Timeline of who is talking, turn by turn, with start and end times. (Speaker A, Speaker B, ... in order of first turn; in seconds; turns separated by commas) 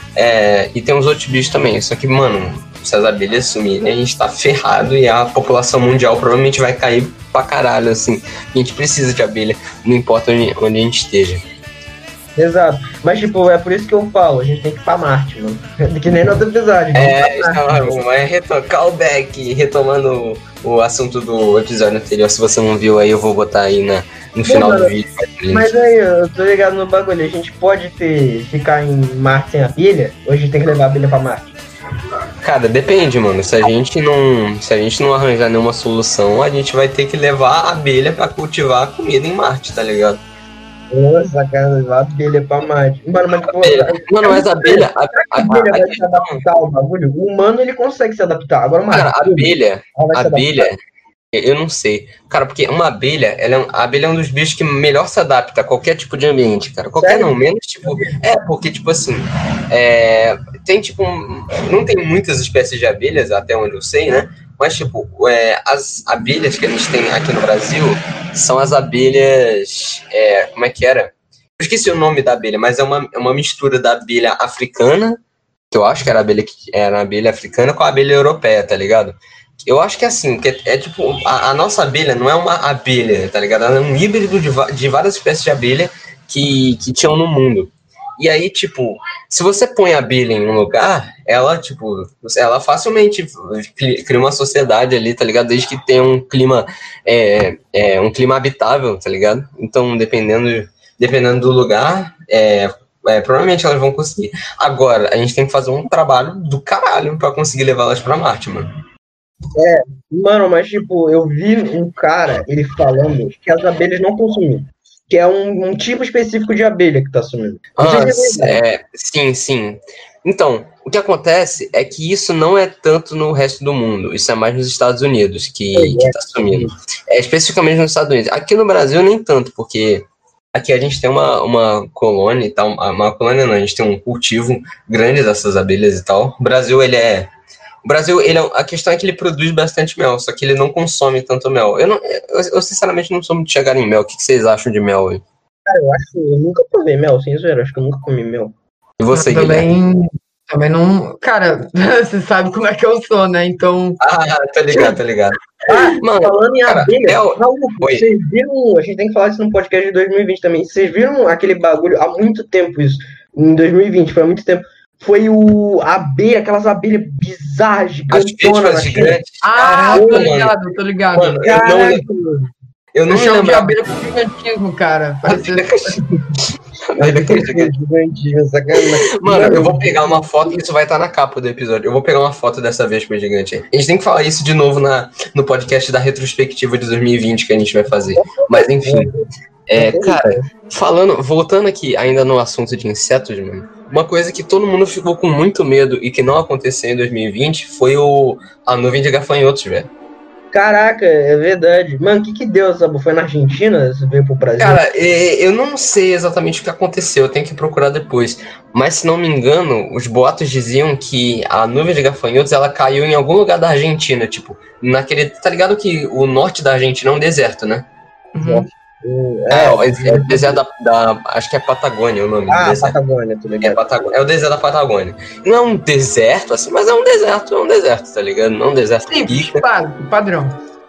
Speaker A: 0.2-11.4, Speaker B: 12.4-18.0, Speaker A: 16.9-25.7, Speaker B: 24.5-24.9, Speaker B: 25.5-31.6, Speaker A: 32.4-40.2, Speaker B: 40.9-50.7, Speaker A: 43.5-46.4, Speaker A: 48.9-50.8, Speaker A: 51.3-75.2, Speaker B: 57.0-57.3, Speaker A: 75.7-108.7, Speaker B: 109.5-118.6, Speaker A: 117.8-137.3, Speaker B: 125.7-126.7, Speaker A: 137.8-145.2, Speaker B: 145.7-148.5, Speaker A: 149.0-149.7, Speaker C: 149.1-154.0, Speaker A: 154.0-158.1, Speaker B: 155.7-169.2, Speaker A: 168.1-170.6, Speaker C: 169.4-171.7, Speaker B: 169.9-170.3, Speaker A: 171.2-172.0, Speaker B: 171.4-172.5, Speaker A: 172.9-173.8, Speaker C: 173.1-176.0, Speaker A: 175.3-176.0, Speaker A: 176.9-177.7, Speaker B: 177.0-180.2, Speaker A: 178.8-189.1, Speaker B: 188.2-189.2, Speaker A: 189.7-199.9, Speaker B: 189.8-190.5, Speaker B: 200.5-204.8, Speaker A: 204.6-217.9, Speaker C: 218.3-218.7, Speaker B: 218.4-220.6, Speaker A: 219.5-222.9, Speaker B: 222.5-223.8, Speaker A: 223.6-229.6, Speaker C: 229.1-230.6